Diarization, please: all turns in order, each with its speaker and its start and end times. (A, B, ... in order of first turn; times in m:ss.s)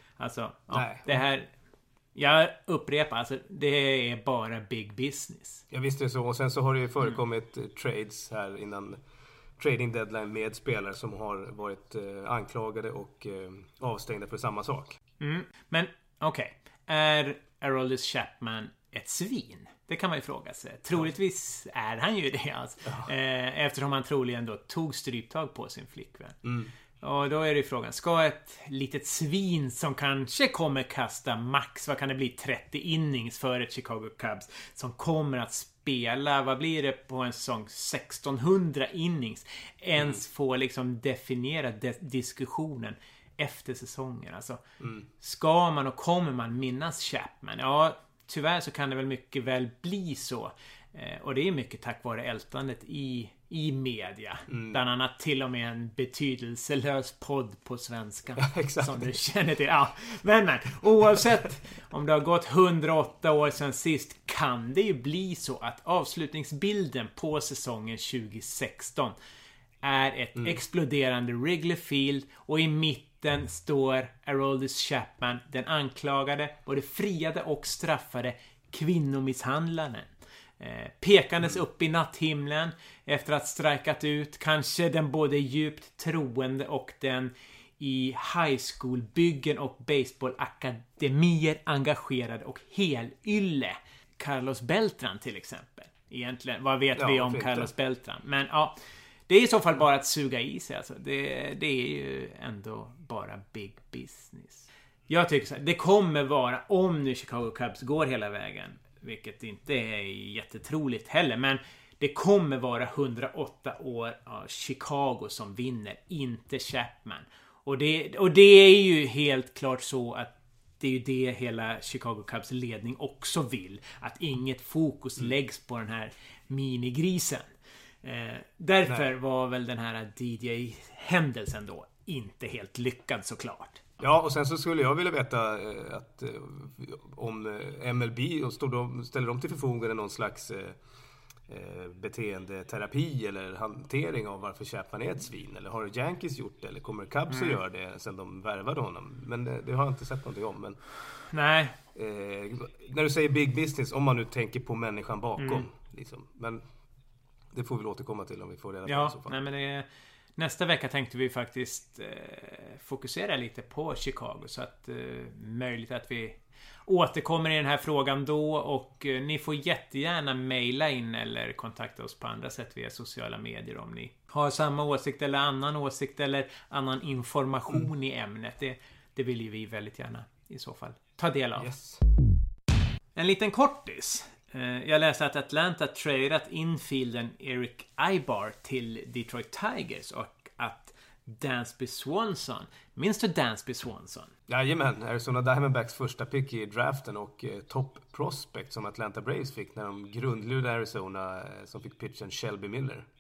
0:00.2-0:01.5 A
0:00.7-0:01.2 B
0:02.2-0:05.6 A
0:05.7-0:09.0 B
0:09.6-0:15.0 B
0:15.2-0:26.4 A
0:26.4-0:26.7 B
0:27.0-0:44.6 A
0:44.8-0:45.1 B
0:45.2-1:09.2 A
0:54.5-0:54.8 B
0:58.4-0:59.2 B
1:09.8-1:38.8 A
1:37.0-1:37.7 B
1:39.3-2:07.5 A
2:08.0-2:13.8 A
2:14.0-2:20.8 B
2:21.5-2:30.8 B
2:27.3-2:27.6 A
2:31.3-2:31.8 A
2:32.0-2:36.6 B
2:35.4-2:35.7 A
2:37.5-2:39.4 B
2:38.9-2:39.9 A
2:40.4-3:01.7 A
3:01.6-3:02.0 B
3:03.2-3:14.3 A
3:14.5-3:23.1 B